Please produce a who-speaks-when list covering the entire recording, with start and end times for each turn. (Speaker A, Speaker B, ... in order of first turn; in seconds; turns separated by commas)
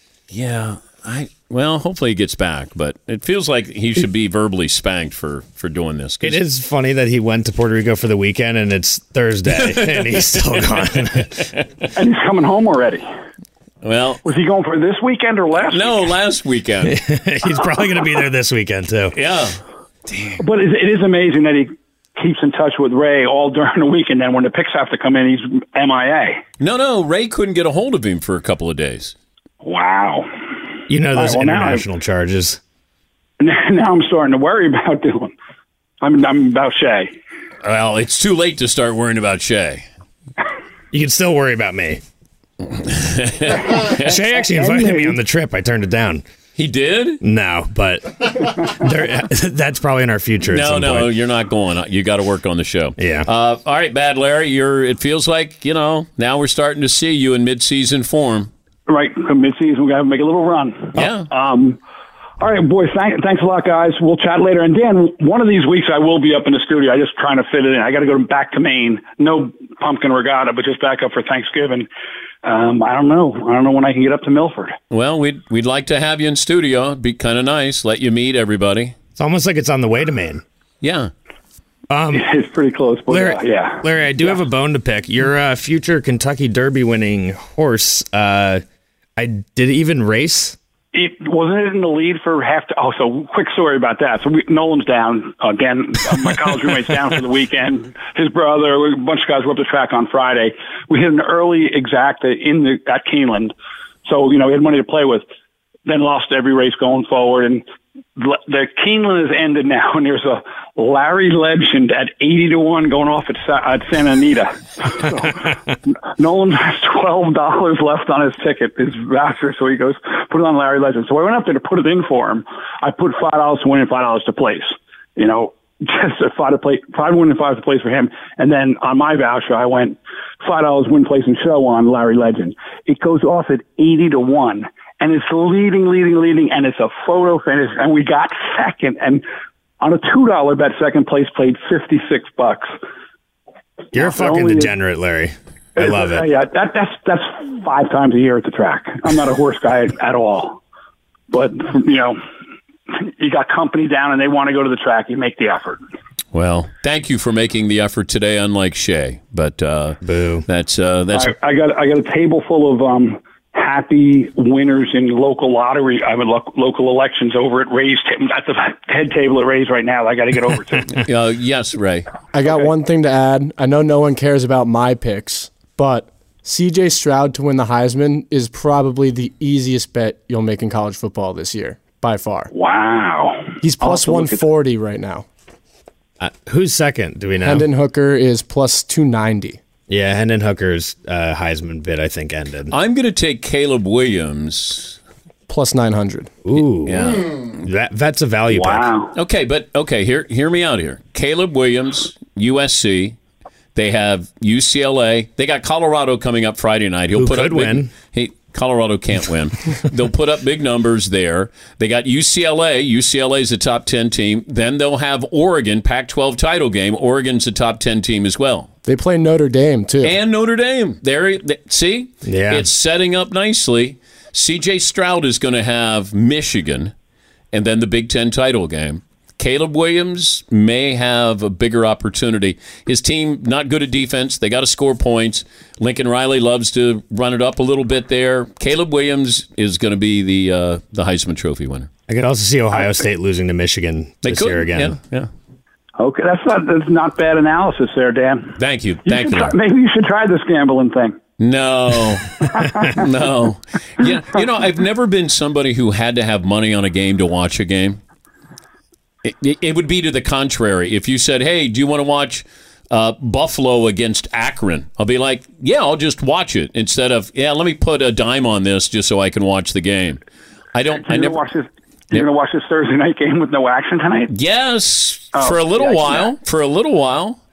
Speaker A: 0.3-6.4, Speaker B: 6.2-11.4, Speaker A: 9.5-10.9, Speaker C: 11.9-13.1, Speaker A: 13.8-14.2, Speaker C: 14.2-16.1, Speaker A: 15.7-17.0, Speaker B: 16.8-19.2, Speaker A: 19.1-20.4, Speaker C: 20.4-26.4, Speaker A: 26.6-29.1, Speaker C: 29.6-30.3, Speaker B: 30.9-32.6, Speaker C: 31.1-31.8, Speaker C: 33.4-35.3, Speaker C: 36.0-37.1, Speaker A: 37.6-39.9, Speaker B: 40.9-42.0, Speaker A: 42.6-44.2, Speaker B: 43.9-46.2, Speaker C: 44.5-45.2, Speaker A: 46.6-47.2, Speaker B: 47.2-51.1, Speaker A: 50.5-58.5, Speaker B: 53.0-53.3, Speaker C: 58.9-61.8, Speaker A: 61.0-61.3, Speaker C: 62.4-71.9, Speaker C: 72.4-74.8, Speaker A: 74.9-79.0, Speaker B: 79.2-80.4, Speaker A: 80.8-81.1, Speaker B: 81.9-82.3, Speaker C: 82.1-84.3, Speaker B: 83.1-88.6, Speaker B: 89.2-90.6, Speaker C: 90.9-103.5, Speaker C: 104.0-105.2, Speaker C: 105.9-107.6, Speaker C: 108.2-115.5, Speaker C: 116.2-139.2, Speaker C: 139.8-142.8, Speaker B: 143.9-146.3, Speaker C: 143.9-144.7, Speaker C: 145.8-150.6, Speaker C: 151.3-152.2, Speaker C: 152.9-155.8, Speaker A: 156.3-161.3, Speaker B: 160.0-160.5, Speaker C: 161.1-171.0, Speaker A: 170.9-172.1, Speaker D: 172.3-182.5, Speaker C: 182.5-184.4, Speaker D: 183.6-185.3, Speaker B: 186.2-187.7, Speaker D: 187.4-189.6, Speaker B: 189.9-192.7, Speaker A: 192.7-195.0, Speaker D: 195.5-196.4, Speaker B: 196.4-198.9, Speaker A: 196.8-197.7, Speaker C: 198.5-199.1, Speaker A: 199.2-203.2, Speaker A: 203.8-218.7, Speaker B: 207.2-207.9, Speaker D: 218.9-220.2, Speaker A: 220.0-226.9, Speaker B: 222.2-222.7, Speaker A: 227.5-241.9, Speaker B: 242.1-245.0, Speaker A: 244.2-245.3, Speaker C: 246.0-251.2, Speaker A: 248.6-249.6, Speaker A: 251.4-258.0, Speaker C: 252.5-253.1, Speaker A: 259.2-270.2, Speaker A: 270.7-271.4, Speaker C: 271.1-274.3, Speaker A: 274.3-277.4, Speaker C: 275.3-276.3